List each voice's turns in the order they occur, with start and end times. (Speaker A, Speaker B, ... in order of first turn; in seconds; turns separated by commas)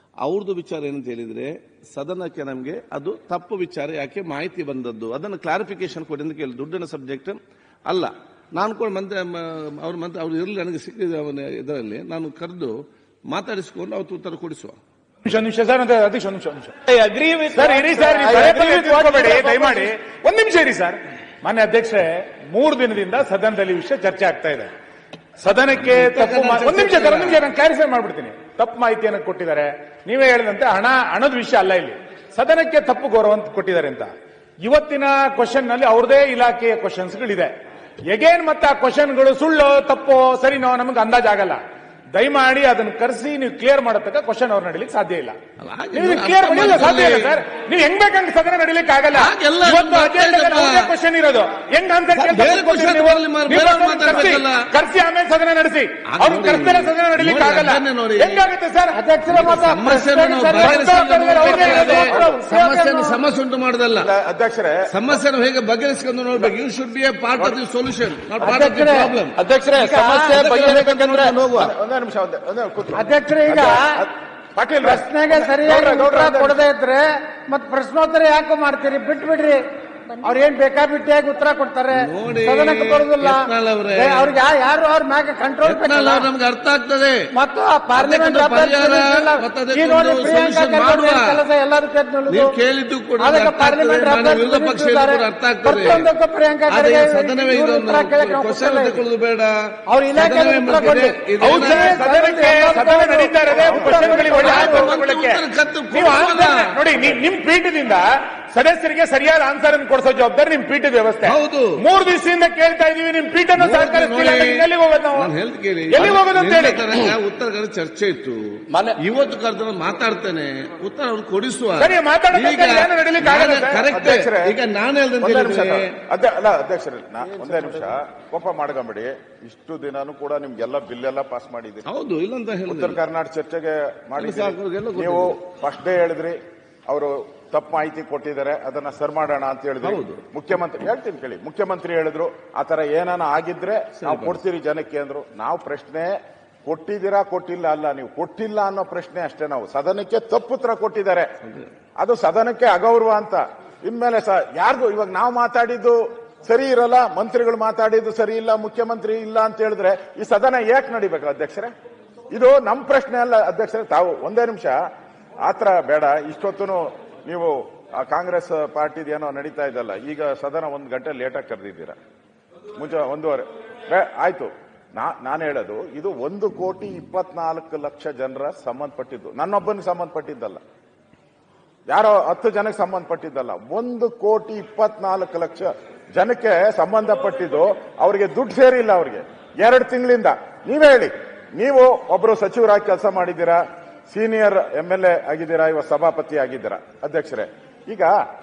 Speaker A: 0.2-12.8, Speaker A: 13.3-14.8, Speaker B: 15.2-16.7, Speaker C: 16.9-19.9, Speaker B: 17.5-24.7, Speaker B: 25.4-34.1, Speaker A: 25.7-27.5, Speaker B: 34.6-37.5, Speaker B: 38.1-41.6, Speaker B: 42.1-45.4, Speaker A: 45.6-47.4, Speaker B: 45.9-59.0, Speaker A: 49.2-50.9, Speaker A: 52.1-54.7, Speaker A: 56.1-58.5, Speaker D: 58.9-63.2, Speaker A: 59.3-64.1, Speaker B: 60.6-62.1, Speaker E: 63.9-64.9, Speaker A: 64.9-69.4, Speaker D: 68.4-69.2, Speaker C: 69.4-71.3, Speaker D: 69.7-70.6, Speaker A: 70.2-71.7, Speaker E: 71.5-76.6, Speaker D: 72.9-74.0, Speaker D: 74.8-79.6, Speaker D: 80.2-86.3, Speaker A: 82.0-84.3, Speaker A: 85.6-87.3, Speaker D: 87.3-92.6, Speaker A: 88.0-91.4, Speaker A: 92.3-96.1, Speaker D: 93.2-99.0, Speaker A: 96.7-102.0, Speaker D: 99.9-105.0, Speaker B: 101.4-115.3, Speaker A: 104.0-107.2, Speaker A: 111.2-111.8, Speaker A: 113.6-126.0, Speaker B: 115.9-116.9, Speaker B: 121.8-123.8, Speaker E: 123.9-124.6, Speaker E: 125.2-131.8, Speaker A: 131.9-133.0, Speaker E: 132.7-146.1, Speaker A: 134.2-135.4, Speaker A: 139.8-140.2, Speaker A: 144.0-144.4, Speaker E: 146.7-151.3, Speaker E: 152.0-161.7, Speaker E: 162.3-164.8, Speaker E: 165.4-172.0, Speaker E: 172.8-180.6, Speaker E: 181.9-198.1